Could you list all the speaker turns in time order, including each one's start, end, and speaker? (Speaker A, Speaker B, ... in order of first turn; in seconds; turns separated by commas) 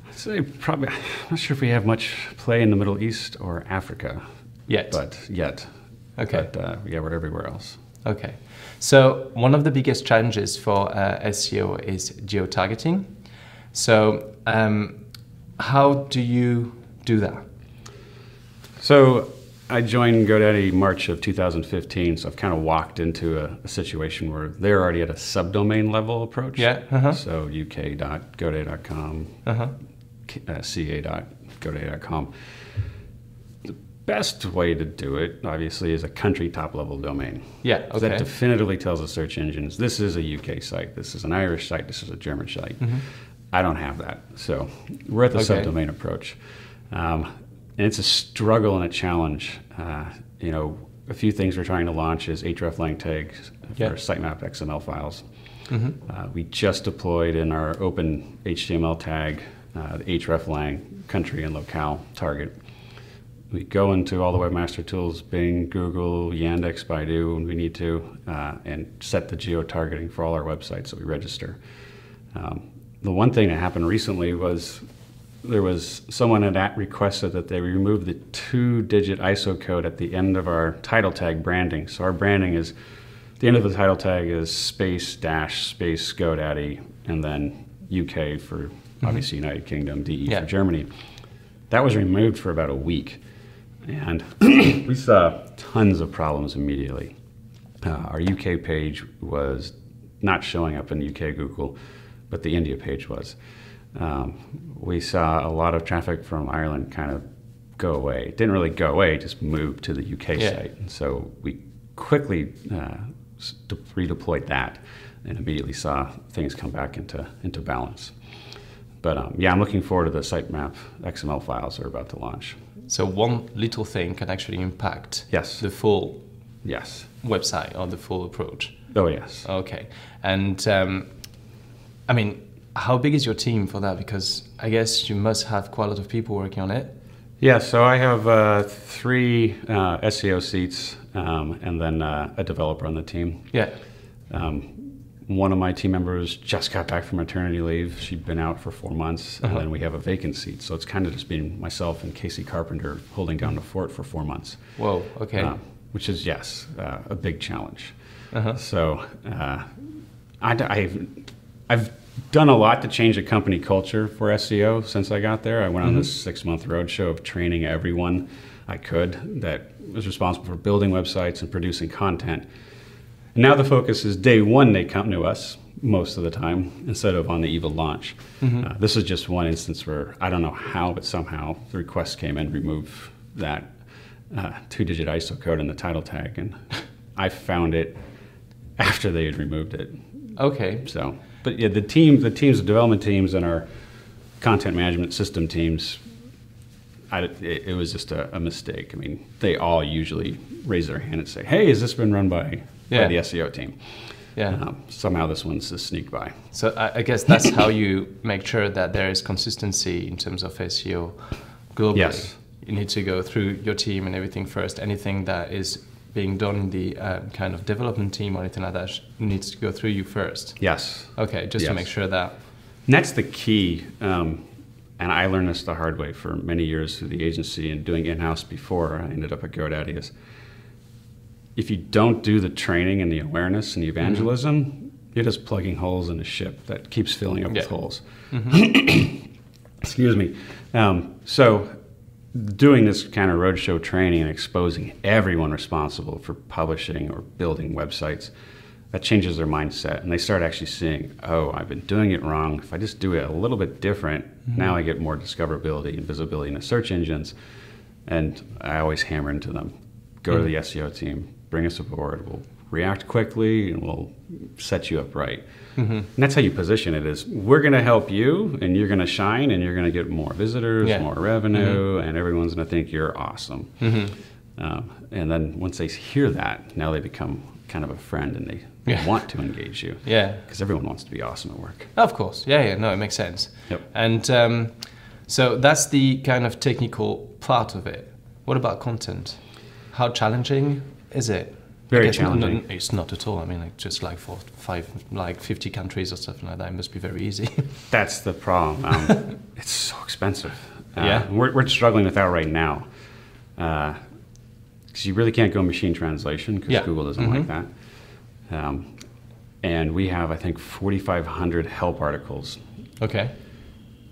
Speaker A: 0.1-7.8, Speaker B: 4.7-5.5, Speaker B: 6.2-6.5, Speaker B: 8.0-17.5, Speaker A: 18.8-29.5, Speaker B: 26.6-27.2, Speaker B: 29.4-29.7, Speaker A: 30.2-33.0, Speaker A: 33.6-71.6, Speaker B: 37.6-38.2, Speaker B: 45.3-45.7, Speaker B: 55.7-56.0, Speaker A: 72.3-74.8, Speaker A: 75.4-82.7, Speaker A: 83.4-90.9, Speaker A: 91.7-93.2, Speaker A: 93.8-97.1, Speaker A: 97.8-107.2, Speaker A: 107.8-118.2, Speaker B: 110.3-110.6, Speaker A: 119.0-122.6, Speaker B: 122.9-126.2, Speaker A: 125.3-125.7, Speaker A: 126.6-127.1, Speaker B: 127.2-136.9, Speaker A: 128.9-129.5, Speaker A: 137.4-172.5, Speaker B: 143.5-143.8, Speaker B: 154.8-155.5, Speaker B: 158.3-158.6, Speaker A: 173.3-188.1, Speaker B: 178.4-178.7, Speaker A: 188.8-196.0, Speaker B: 190.3-190.9, Speaker A: 197.1-206.4, Speaker B: 202.9-203.5, Speaker B: 204.3-204.6, Speaker B: 206.5-222.4, Speaker A: 211.9-212.4, Speaker A: 220.6-224.4, Speaker A: 224.9-230.2, Speaker A: 231.5-239.2, Speaker B: 234.0-234.3, Speaker B: 237.5-238.5, Speaker A: 239.8-241.8, Speaker A: 242.3-248.3, Speaker A: 248.9-257.4, Speaker B: 254.5-254.7, Speaker A: 258.0-281.9, Speaker B: 265.8-266.1, Speaker B: 270.8-271.8, Speaker B: 273.8-274.1, Speaker B: 278.8-280.4, Speaker B: 281.9-297.8, Speaker A: 291.9-292.6, Speaker A: 297.9-304.3, Speaker B: 300.9-301.3, Speaker A: 304.9-312.6, Speaker B: 306.7-307.5, Speaker B: 313.0-313.3